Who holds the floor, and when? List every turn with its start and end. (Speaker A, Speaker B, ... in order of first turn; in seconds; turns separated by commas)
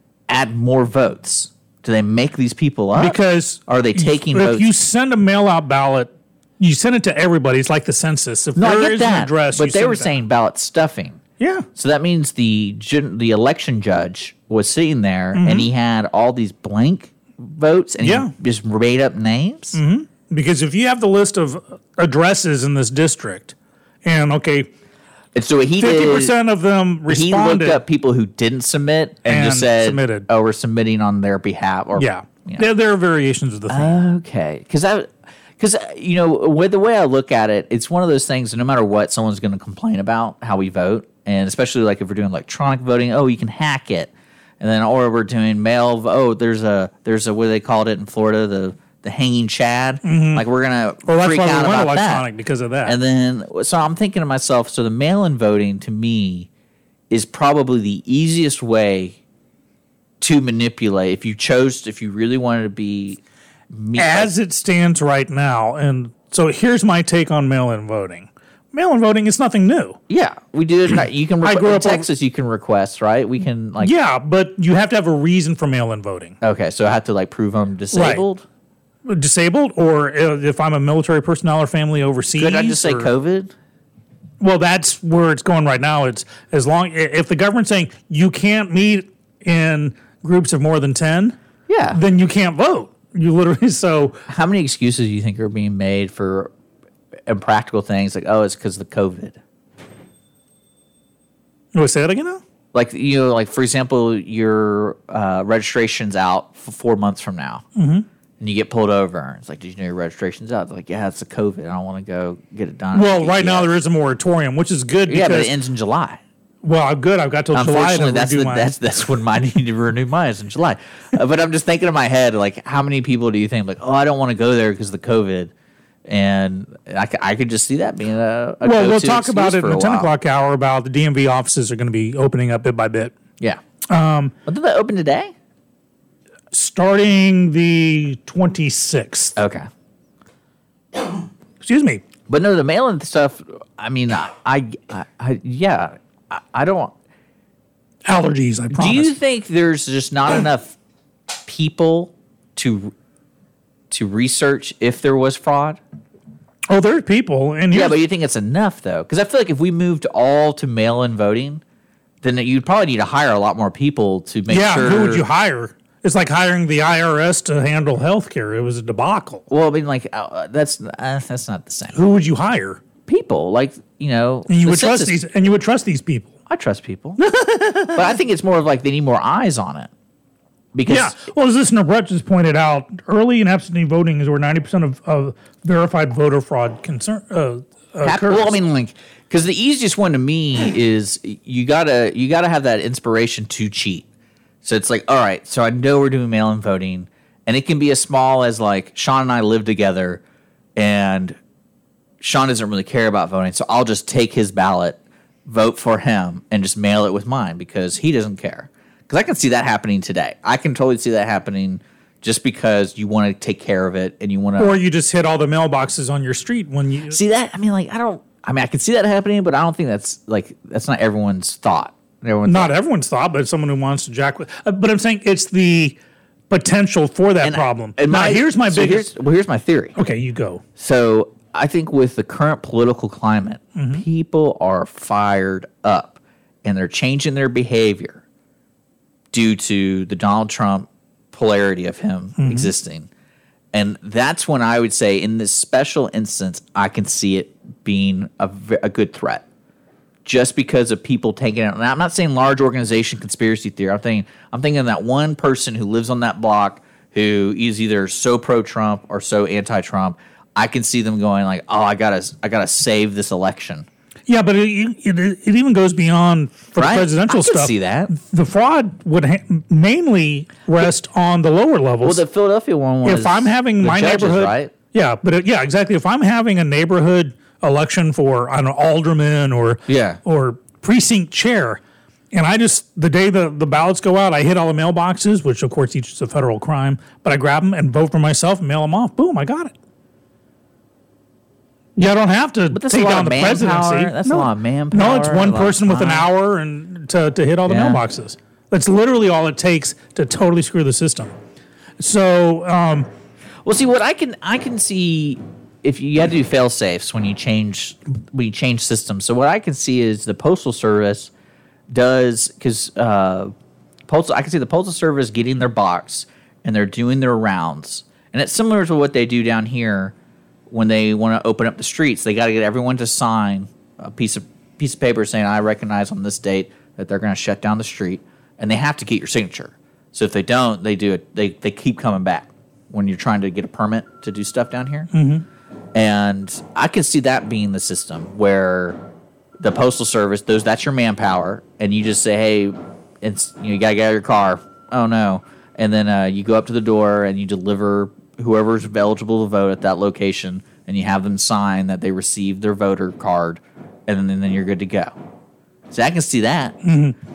Speaker A: 0.3-4.7, Speaker B: 3.0-10.2, Speaker A: 8.6-11.2, Speaker B: 11.4-11.7, Speaker A: 11.8-19.8, Speaker B: 15.3-15.7, Speaker B: 18.0-18.3, Speaker B: 19.7-24.7, Speaker A: 25.3-26.3, Speaker B: 25.8-27.8, Speaker A: 27.1-32.7, Speaker B: 29.2-30.3, Speaker B: 31.9-34.0, Speaker A: 33.7-52.3, Speaker B: 50.0-50.5, Speaker B: 51.0-53.0, Speaker A: 52.8-56.5, Speaker A: 57.1-59.1, Speaker A: 60.2-63.2, Speaker A: 63.7-64.3, Speaker B: 64.0-70.0, Speaker A: 70.1-73.9, Speaker B: 71.4-72.1, Speaker B: 73.8-76.3, Speaker A: 76.4-78.4, Speaker B: 77.9-78.2, Speaker B: 79.0-83.1, Speaker A: 82.3-83.5, Speaker B: 84.4-91.4, Speaker A: 91.7-92.0, Speaker B: 91.9-94.2, Speaker A: 94.3-96.5, Speaker A: 97.3-99.4, Speaker B: 101.7-102.4, Speaker A: 102.7-107.6, Speaker B: 107.7-108.0, Speaker A: 108.4-113.7, Speaker B: 112.9-115.5, Speaker A: 115.1-116.2, Speaker B: 116.6-118.7, Speaker A: 117.5-125.5, Speaker A: 126.0-130.1, Speaker B: 128.6-133.1, Speaker B: 133.9-134.3, Speaker A: 134.4-135.3, Speaker B: 136.5-139.3, Speaker A: 139.3-139.7, Speaker B: 141.6-142.0, Speaker A: 142.3-146.9, Speaker B: 148.0-149.1, Speaker A: 148.7-150.7, Speaker A: 151.4-152.9, Speaker A: 153.9-155.8, Speaker B: 156.7-158.0, Speaker A: 157.7-161.6, Speaker A: 162.2-165.2, Speaker B: 164.5-169.4, Speaker A: 169.5-172.0, Speaker B: 171.9-172.8, Speaker A: 173.1-175.2, Speaker B: 174.5-176.3, Speaker A: 176.5-177.2, Speaker B: 177.2-178.1, Speaker A: 177.9-179.9, Speaker A: 180.7-181.2, Speaker B: 180.9-188.6, Speaker A: 188.0-194.0, Speaker A: 194.6-200.2, Speaker A: 200.8-201.4, Speaker A: 202.2-214.8, Speaker B: 214.6-217.2, Speaker A: 217.1-222.7, Speaker B: 222.4-226.0, Speaker B: 226.5-229.1, Speaker A: 227.4-229.9, Speaker B: 229.9-230.6, Speaker A: 230.8-238.2, Speaker B: 233.7-234.0, Speaker A: 239.3-243.1, Speaker B: 242.4-242.7, Speaker A: 243.7-249.4, Speaker A: 250.2-263.9, Speaker B: 264.3-272.2, Speaker A: 266.8-268.1, Speaker A: 272.0-274.7, Speaker B: 273.0-281.8, Speaker A: 279.9-280.2, Speaker B: 282.3-289.7, Speaker B: 291.9-301.3, Speaker A: 292.7-296.3, Speaker A: 297.7-298.0, Speaker B: 302.0-303.1, Speaker A: 303.6-311.3, Speaker A: 311.9-313.5, Speaker A: 314.1-320.1, Speaker A: 320.7-335.1, Speaker B: 335.1-335.4, Speaker A: 335.9-339.0, Speaker A: 339.6-355.1, Speaker A: 355.9-356.8, Speaker B: 356.8-357.1